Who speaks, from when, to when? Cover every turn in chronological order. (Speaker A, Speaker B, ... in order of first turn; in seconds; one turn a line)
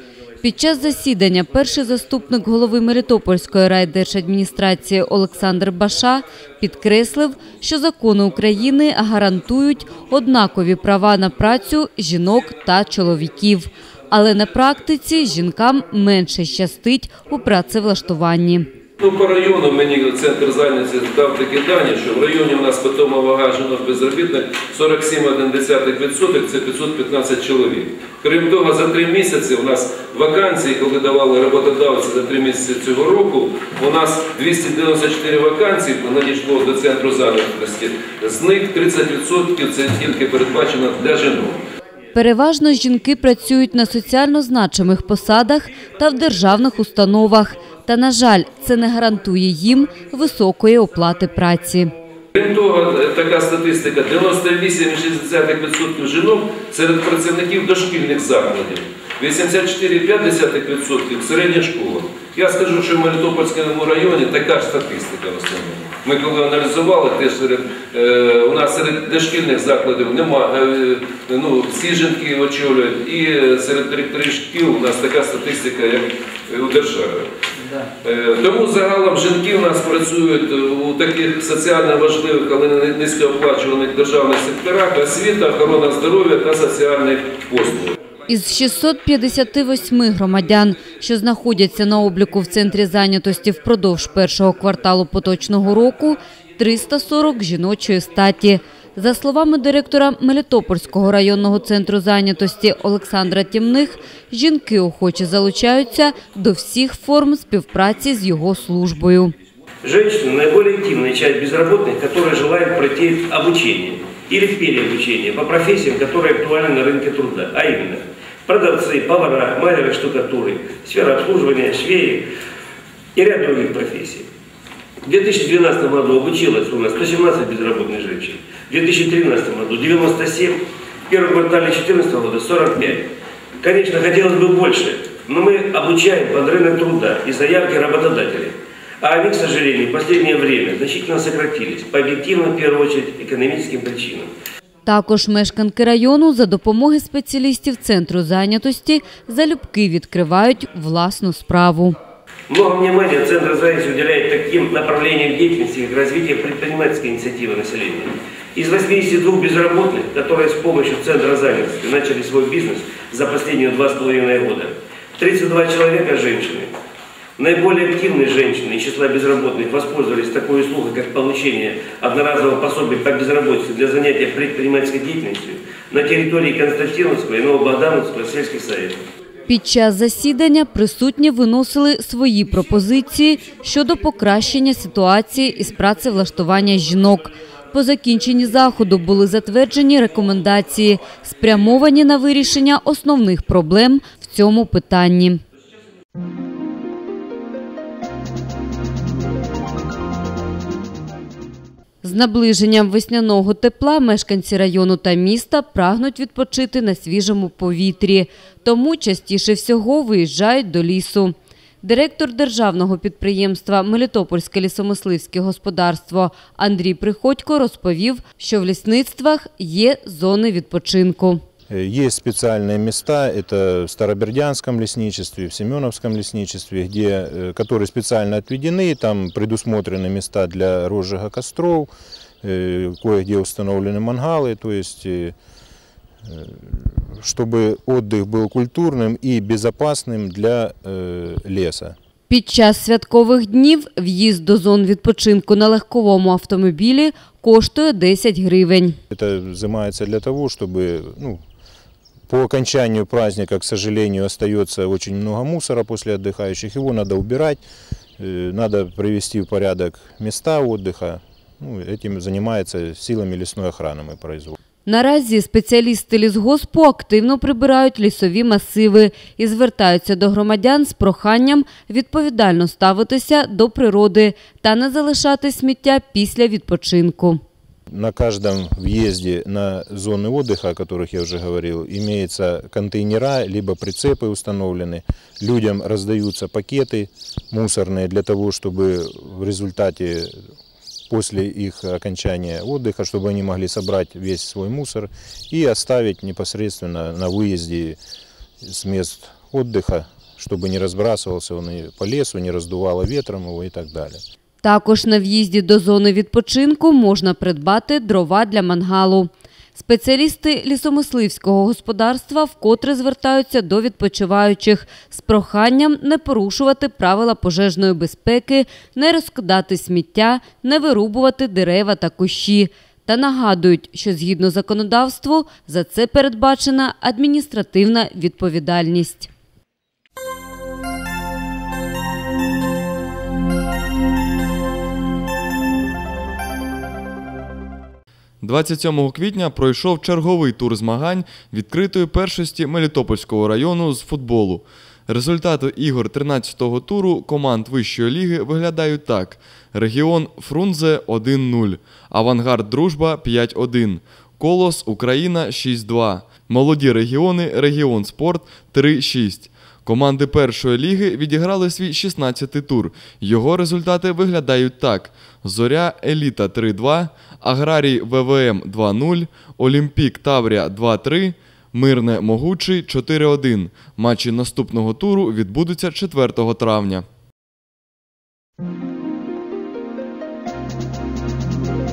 Speaker A: 0.4-18.7
Speaker B: 19.0-41.6
Speaker A: 42.1-51.9
Speaker B: 52.4-77.3
Speaker B: 78.0-88.0
Speaker A: 88.3-109.3
Speaker C: 109.8-122.3
Speaker C: 123.2-124.3
Speaker C: 125.0-133.1
Speaker C: 133.6-144.3
Speaker A: 144.9-152.0
Speaker C: 152.5-166.7
Speaker C: 167.4-179.0
Speaker A: 179.5-195.4
Speaker A: 202.0-221.4
Speaker D: 221.7-231.9
Speaker D: 232.4-235.3
Speaker D: 236.3-242.0
Speaker A: 242.3-249.0
Speaker D: 249.1-251.4
Speaker D: 252.3-257.6
Speaker D: 258.2-264.6
Speaker A: 264.9-277.4
Speaker D: 277.9-290.4
Speaker D: 291.1-298.0
Speaker D: 298.6-304.2
Speaker A: 304.6-329.3
Speaker E: 338.4-377.1